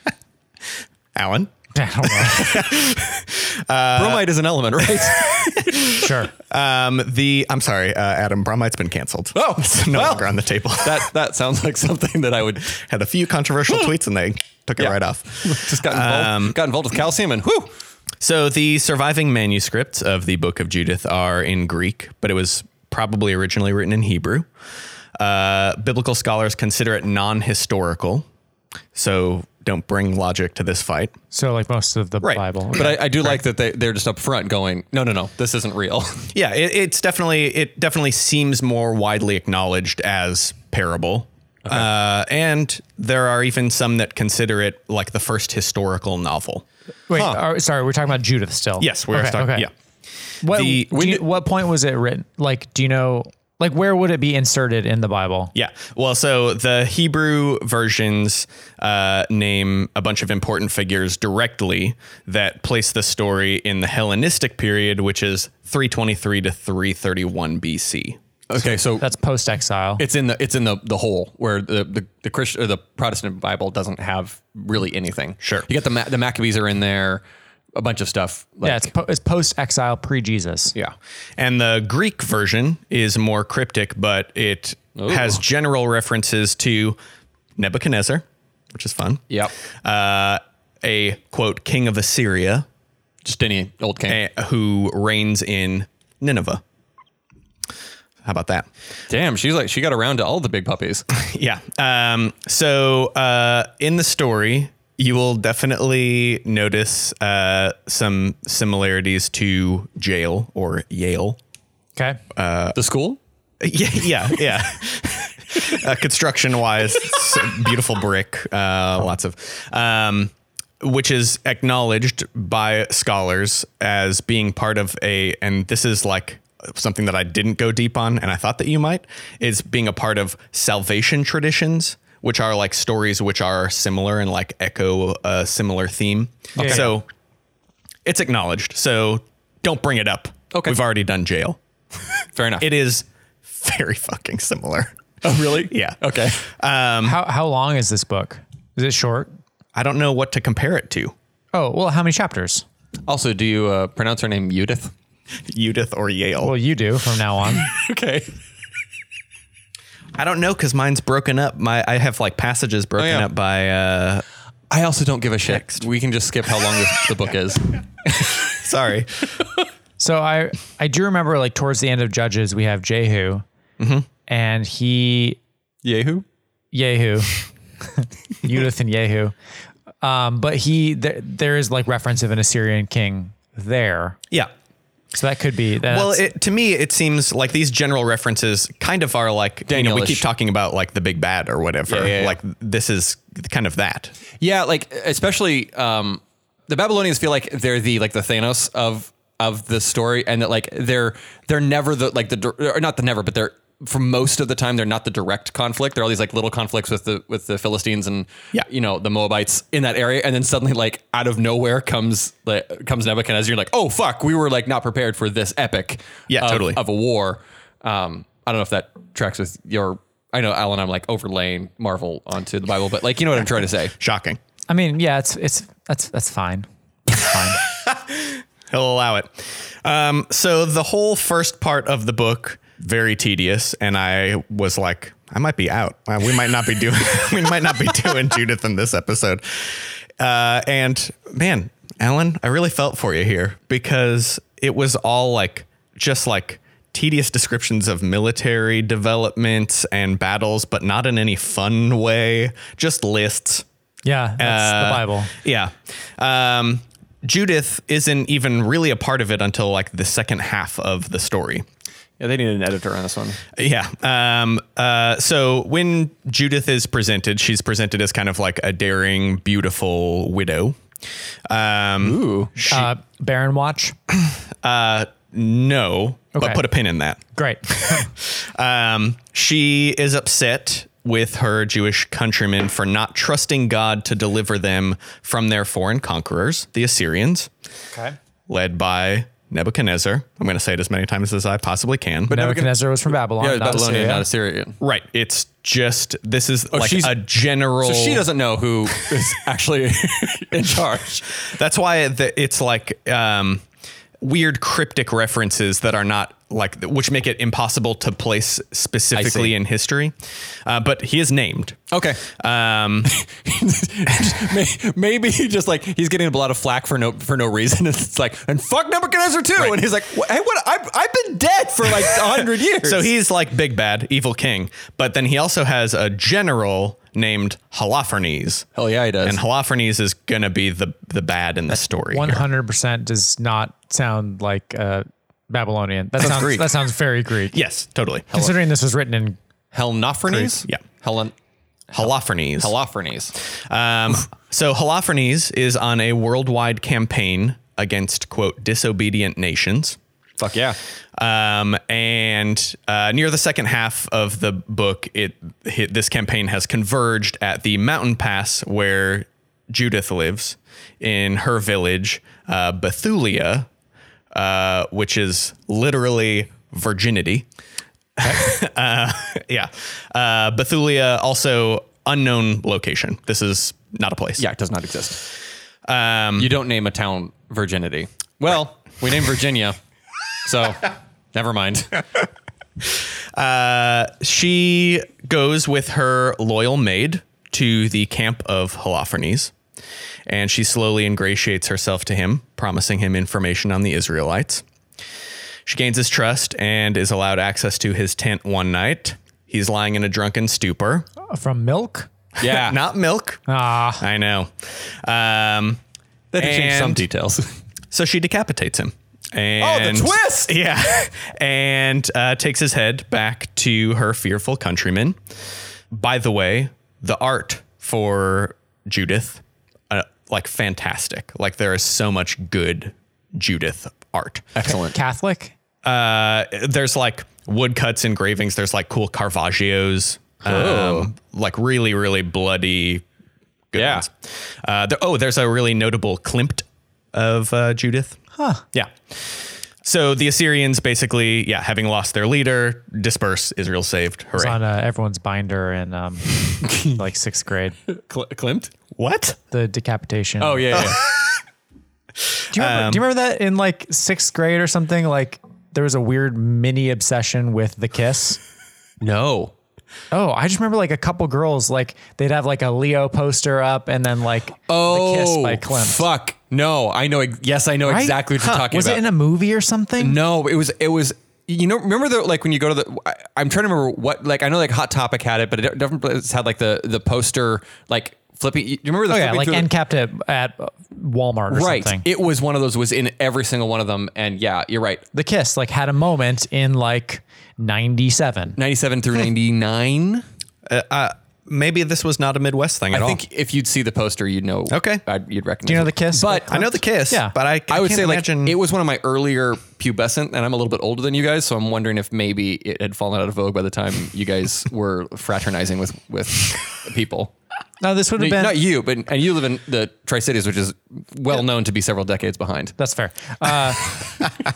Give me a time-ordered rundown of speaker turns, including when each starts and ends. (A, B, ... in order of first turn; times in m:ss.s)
0:01.1-0:01.5 A
0:01.7-0:02.6 B
0:02.0-0:04.2 A
0:03.9-0:05.8 C
0:04.9-0:11.1 A
0:06.0-0:06.3 B
0:09.3-0:12.8 C
0:12.7-0:16.6 A
0:14.8-0:17.7 C
0:18.2-0:24.5 A
0:25.2-0:28.2 A
0:28.9-0:31.1 A
0:31.3-0:33.3 B
0:32.2-0:33.3 A
0:32.7-0:36.3 C
0:36.3-0:46.6 A
0:47.1-0:49.7 B
0:47.1-0:47.4 C
0:48.8-0:49.7 A
0:50.4-0:55.5 B
0:50.5-0:51.1 A
0:50.9-0:51.2 C
0:55.5-1:08.2 A
1:08.5-1:09.1 C
1:09.0-1:10.0 B
1:10.0-1:17.2 C
1:15.4-1:15.7 A
1:17.8-1:18.9 C
1:18.6-1:20.7 B
1:21.4-1:27.0 A
1:25.0-1:25.4 C
1:27.6-1:29.2 A
1:29.8-1:32.6 A
1:33.2-1:34.2 C
1:34.1-1:36.6 A
1:38.2-1:38.7 A
1:39.1-1:41.1 C
1:41.1-1:51.4 A
1:52.0-1:52.2 B
1:52.3-1:52.8 A
1:52.7-1:53.2 C
1:53.6-2:17.1 A
2:16.6-2:16.9 B
2:16.6-2:16.9 C
2:18.0-2:21.6 A
2:20.5-2:20.8 C
2:22.4-2:22.7 C
2:22.6-2:24.9 A
2:25.2-2:26.4 C
2:25.6-2:27.2 A
2:27.0-2:29.3 B
2:29.8-2:31.1 A
2:31.5-2:32.6 B
2:33.1-2:34.9 C
2:35.5-2:36.5 A
2:36.4-2:37.7 B
2:37.6-2:38.3 C
2:40.2-2:44.2 A
2:43.0-2:43.3 C
2:44.7-2:47.7 C
2:45.5-2:45.9 A
2:48.0-2:49.3 A
2:50.0-2:53.4 B
2:53.8-2:54.1 A
2:54.3-2:55.4 B
2:55.8-2:56.2 C
2:56.7-2:57.4 B
2:57.9-2:59.3 B
3:00.0-3:04.2 B
3:05.1-3:06.3 B
3:05.9-3:14.1 A
3:09.7-3:10.2 C
3:11.9-3:12.4 C
3:14.4-3:43.9 C
3:36.3-3:36.8 A
3:44.0-3:44.4 A
3:44.7-3:47.6 B
3:47.8-4:13.6 A
4:14.0-4:15.3 B
4:14.4-4:21.6 A
4:22.2-4:23.4 C
4:23.6-4:30.8 A
4:31.5-4:32.9 A
4:32.0-4:32.6 C
4:32.6-4:33.9 B
4:34.6-4:47.5 A
4:36.3-4:36.6 B
4:37.3-4:38.1 B
4:48.5-4:52.4 A
4:52.3-4:52.7 C
4:52.3-4:54.3 B
4:53.4-4:54.8 C
4:54.8-4:58.3 A
4:56.7-4:57.2 C
4:57.8-5:01.3 C
5:01.4-5:03.6 A
5:04.2-5:13.1 A
5:09.2-5:09.6 C
5:11.9-5:12.2 C
5:13.1-5:23.1 C
5:22.8-5:28.7 A
5:28.8-5:29.4 C
5:29.2-5:32.4 A
5:32.1-5:37.6 B
5:36.2-5:36.6 C
5:36.2-5:36.6 A
5:37.5-5:38.3 A
5:38.3-5:39.4 B
5:39.7-5:41.3 C
5:41.9-5:42.7 A
5:42.0-5:43.3 C
5:43.5-5:50.0 A
5:50.4-5:50.8 C
5:51.2-6:03.7 A
6:04.3-6:07.5 A
6:08.2-6:14.4 A
6:14.4-6:15.3 C
6:15.8-6:16.5 A
6:16.4-6:19.8 C
6:20.4-6:22.0 C
6:22.8-6:29.5 A
6:30.3-6:34.6 A
6:35.7-6:41.1 A
6:41.3-6:42.1 B
6:42.4-6:42.8 C
6:42.4-6:43.4 A
6:43.5-6:44.0 B
6:44.0-6:45.8 A
6:46.3-6:47.4 C
6:46.4-6:47.1 A
6:47.9-6:55.2 A
6:49.6-6:50.5 C
6:55.9-7:04.7 A
7:04.6-7:05.0 C
7:04.7-7:05.5 B
7:05.8-7:13.0 A
7:10.4-7:11.1 C
7:13.7-7:18.2 A
7:13.8-7:14.1 C
7:18.4-7:18.6 B
7:18.7-7:24.6 A
7:24.3-7:27.8 B
7:26.6-7:27.0 C
7:27.9-7:28.7 C
7:29.0-7:29.4 A
7:29.5-7:31.0 B
7:30.4-7:31.0 C
7:30.7-7:31.4 A
7:32.3-7:33.0 A
7:32.5-7:38.4 B
7:39.0-7:39.5 C
7:40.1-7:46.1 B
7:44.7-7:49.0 C
7:47.8-7:50.2 B
7:50.0-7:59.7 C
7:59.1-8:02.0 B
8:01.5-8:05.0 C
8:05.1-8:08.6 B
8:08.6-8:10.2 C
8:10.7-8:13.2 A
8:12.9-8:16.6 C
8:14.7-8:15.0 A
8:15.7-8:17.3 B
8:16.5-8:18.6 A
8:17.7-8:27.3 C
8:27.8-8:28.6 B
8:28.2-8:32.7 C
8:32.8-8:34.0 B